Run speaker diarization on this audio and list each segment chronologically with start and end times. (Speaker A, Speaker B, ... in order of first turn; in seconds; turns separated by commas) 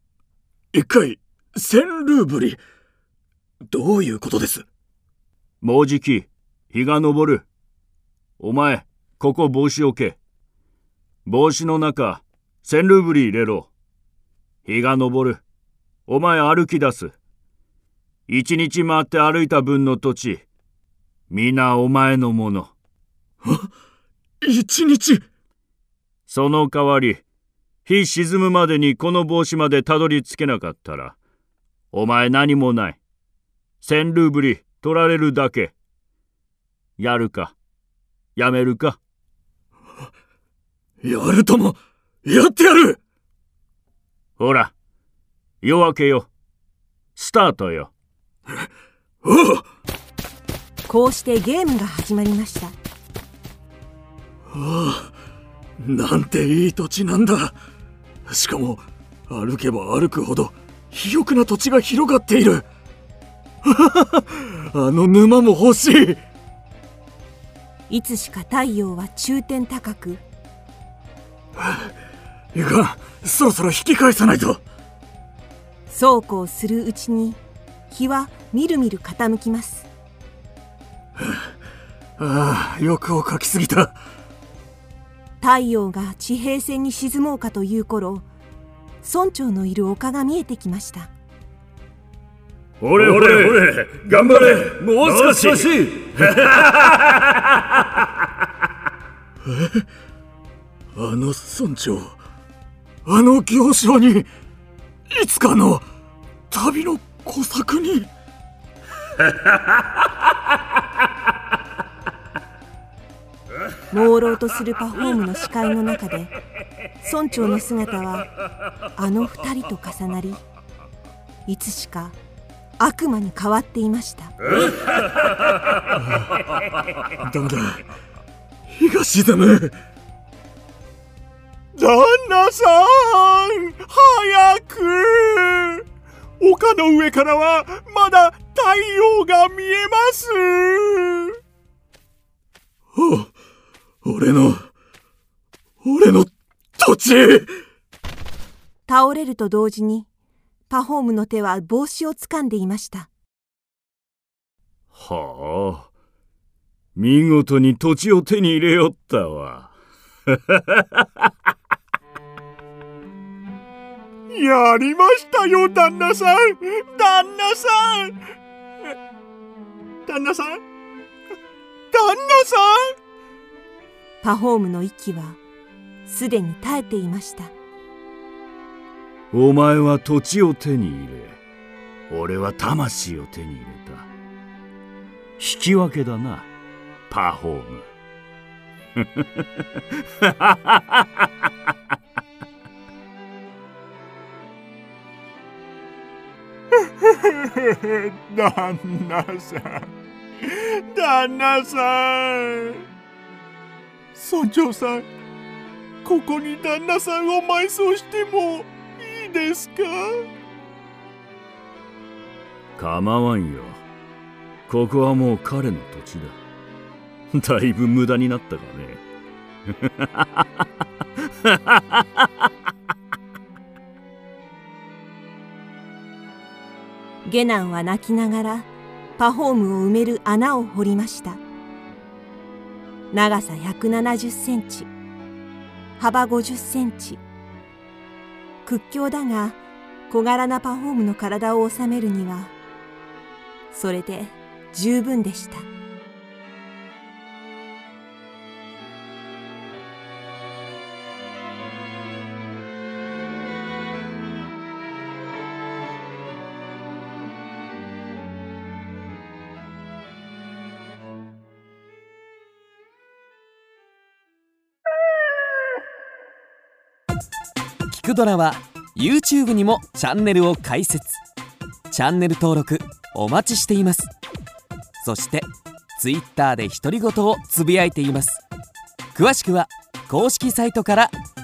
Speaker A: 0.7-2.6, Speaker A: 3.7-4.6, Speaker B: 5.6-7.5, Speaker B: 8.4-10.2, Speaker B: 11.2-13.7, Speaker B: 14.7-15.4, Speaker B: 16.1-17.1, Speaker B: 18.3-20.4, Speaker B: 21.3-22.7, Speaker A: 23.4-23.7, Speaker A: 24.4-25.2, Speaker B: 26.3-27.2, Speaker B: 27.8-31.2, Speaker B: 31.9-33.0, Speaker B: 33.8-35.7, Speaker B: 37.0-37.5, Speaker B: 38.4-39.0, Speaker A: 41.0-43.0, Speaker B: 44.4-44.7, Speaker B: 45.6-46.3, Speaker B: 47.1-47.9, Speaker A: 49.2-49.6, Speaker C: 50.9-52.7, Speaker A: 54.5-55.1, Speaker A: 55.8-57.6, Speaker A: 58.3-62.6, Speaker A: 63.6-66.2, Speaker C: 67.9-70.2, Speaker A: 71.6-71.9, Speaker A: 72.5-74.6, Speaker C: 75.9-79.9, Speaker A: 82.2-84.0, Speaker C: 85.4-88.3, Speaker C: 89.0-91.1, Speaker B: 92.8-97.1, Speaker A: 94.4-95.2, Speaker A: 99.5-99.8, Speaker A: 100.9-102.2, Speaker A: 103.0-104.3, Speaker A: 105.1-105.9, Speaker A: 106.5-108.1, Speaker C: 113.9-116.3, Speaker C: 117.0-118.3, Speaker C: 119.0-120.4, Speaker C: 121.5-122.2, Speaker C: 122.8-124.3, Speaker A: 127.2-127.8, Speaker A: 128.7-129.8, Speaker D: 131.8-135.8, Speaker D: 136.4-141.3, Speaker A: 142.9-143.3, Speaker A: 144.0-144.7, Speaker A: 145.8-147.5, Speaker C: 148.9-150.1, Speaker C: 150.7-153.1, Speaker B: 154.9-155.9, Speaker B: 156.9-159.7, Speaker B: 160.3-160.8, Speaker D: 164.3-168.1, Speaker D: 170.1-170.6, Speaker D: 171.9-172.9, Speaker C: 174.2-175.4, Speaker C: 176.1-177.5, Speaker B: 179.3-181.4, Speaker B: 182.1-184.1, Speaker B: 185.4-186.5, Speaker B: 187.1-187.8, Speaker B: 189.0-189.4, Speaker B: 190.2-191.0, Speaker D: 197.0-199.9, Speaker D: 200.5-202.8, Speaker D: 204.2-205.0, Speaker D: 206.0-210.2, Speaker B: 212.8-213.8, Speaker B: 214.7-216.4, Speaker B: 217.3-219.0, Speaker B: 219.9-220.4, Speaker B: 221.4-222.0, Speaker C: 227.2-231.4, Speaker C: 233.1-234.9, Speaker C: 236.0-237.2, Speaker C: 238.6-239.6, Speaker C: 240.1-242.5, Speaker C: 243.7-245.7, Speaker E: 267.9-271.2, Speaker E: 271.9-274.1, Speaker E: 275.0-278.4, Speaker E: 279.1-281.1